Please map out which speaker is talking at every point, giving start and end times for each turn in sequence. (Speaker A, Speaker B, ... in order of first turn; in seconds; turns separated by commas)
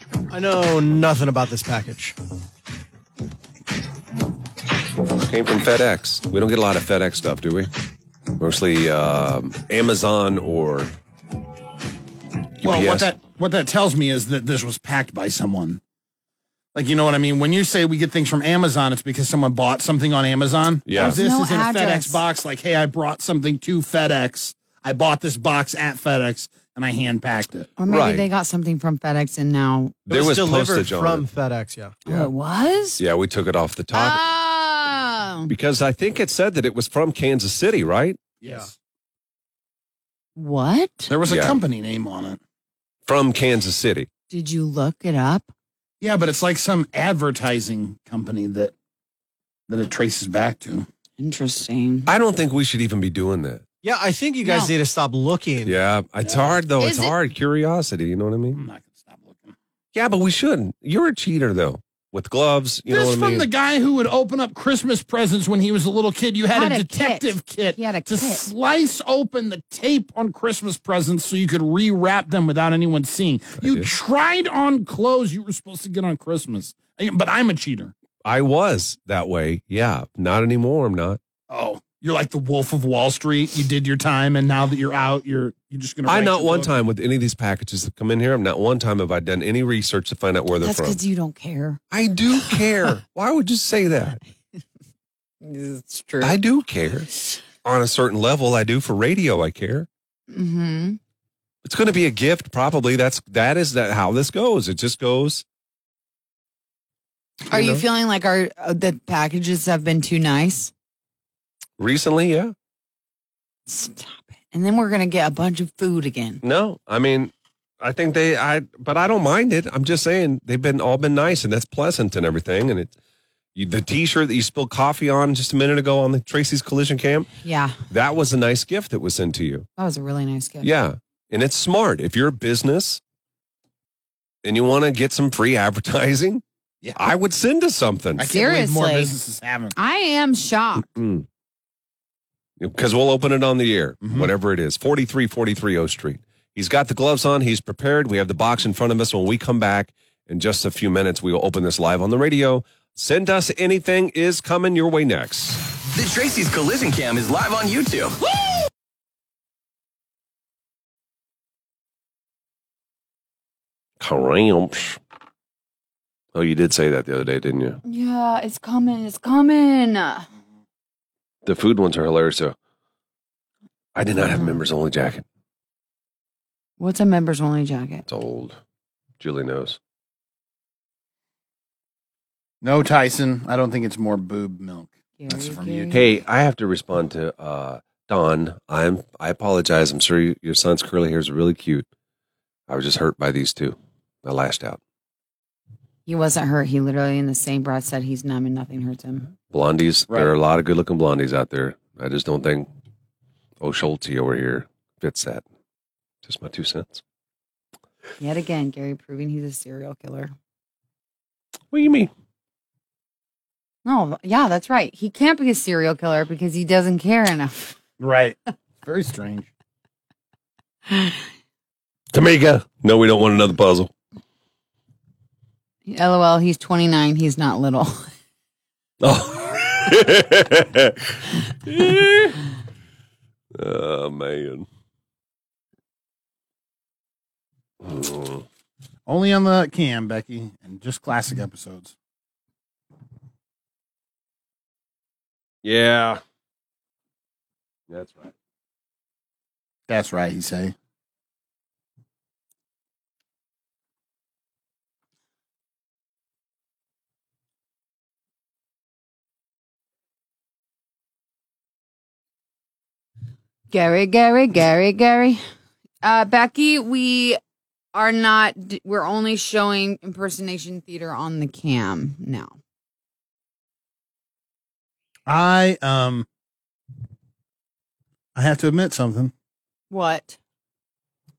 Speaker A: 0.3-2.1, Speaker B: 5.2-7.7, Speaker B: 8.4-10.9, Speaker B: 12.6-13.1, Speaker C: 12.6-15.8, Speaker C: 16.7-27.7, Speaker B: 20.9-21.2, Speaker D: 21.0-22.2, Speaker D: 27.8-30.0, Speaker B: 27.9-28.3, Speaker B: 30.1-31.2, Speaker A: 30.1-31.9, Speaker D: 32.0-33.0, Speaker B: 33.0-34.2, Speaker D: 33.9-35.5, Speaker B: 35.5-38.2, Speaker C: 38.4-38.7, Speaker D: 40.4-41.1, Speaker C: 41.1-42.4, Speaker B: 41.3-41.6, Speaker B: 43.1-44.1, Speaker D: 44.3-45.5, Speaker C: 46.0-48.7, Speaker C: 49.7-50.9, Speaker D: 51.2-52.1, Speaker B: 52.1-53.6, Speaker A: 53.8-55.8, Speaker D: 54.4-54.7, Speaker B: 55.6-58.6, Speaker D: 56.8-57.1, Speaker C: 58.5-59.5, Speaker B: 59.9-63.5, Speaker C: 62.9-77.9, Speaker D: 66.5-68.5, Speaker B: 73.6-73.9, Speaker B: 78.2-81.2, Speaker C: 81.5-86.8, Speaker B: 86.0-91.0, Speaker D: 90.6-91.8, Speaker B: 91.9-94.2, Speaker D: 95.4-96.4, Speaker B: 96.2-97.1, Speaker B: 97.6-99.9, Speaker D: 100.3-101.0, Speaker B: 101.6-105.4, Speaker D: 107.5-110.7, Speaker C: 107.5-107.8, Speaker B: 111.8-112.5, Speaker D: 113.7-116.4, Speaker B: 116.4-122.9, Speaker B: 123.5-127.3, Speaker D: 127.4-127.8, Speaker B: 127.9-129.7, Speaker D: 129.8-130.7, Speaker B: 130.6-133.0, Speaker B: 134.4-136.4, Speaker B: 137.0-138.3, Speaker C: 138.2-139.7, Speaker D: 138.2-139.1, Speaker D: 139.8-140.8, Speaker B: 140.9-141.2, Speaker B: 142.6-155.6, Speaker C: 144.0-144.3, Speaker E: 155.8-158.2, Speaker B: 164.0-165.0, Speaker B: 166.3-167.8, Speaker D: 167.8-170.3, Speaker B: 171.4-172.5, Speaker B: 173.9-175.2, Speaker D: 174.2-174.6, Speaker D: 176.8-178.0, Speaker B: 178.1-178.6, Speaker B: 179.2-179.8, Speaker C: 182.6-186.1, Speaker D: 185.2-186.0, Speaker B: 185.9-191.8, Speaker B: 192.7-194.8, Speaker D: 196.1-199.3, Speaker B: 199.5-202.7, Speaker C: 200.1-200.3, Speaker B: 203.6-205.4, Speaker B: 206.2-207.0, Speaker D: 208.2-210.3, Speaker B: 211.7-212.1, Speaker D: 213.8-217.8, Speaker C: 218.0-219.5, Speaker D: 220.9-221.2, Speaker B: 222.1-223.9, Speaker D: 225.8-228.1, Speaker B: 229.0-232.4, Speaker B: 233.5-234.7, Speaker B: 237.8-238.4, Speaker C: 239.1-241.9, Speaker B: 245.6-246.2, Speaker B: 247.9-248.3, Speaker C: 249.9-250.7, Speaker D: 263.7-265.4, Speaker D: 266.0-267.4, Speaker D: 267.9-272.6, Speaker C: 275.2-276.3, Speaker C: 278.3-279.3, Speaker D: 279.9-280.4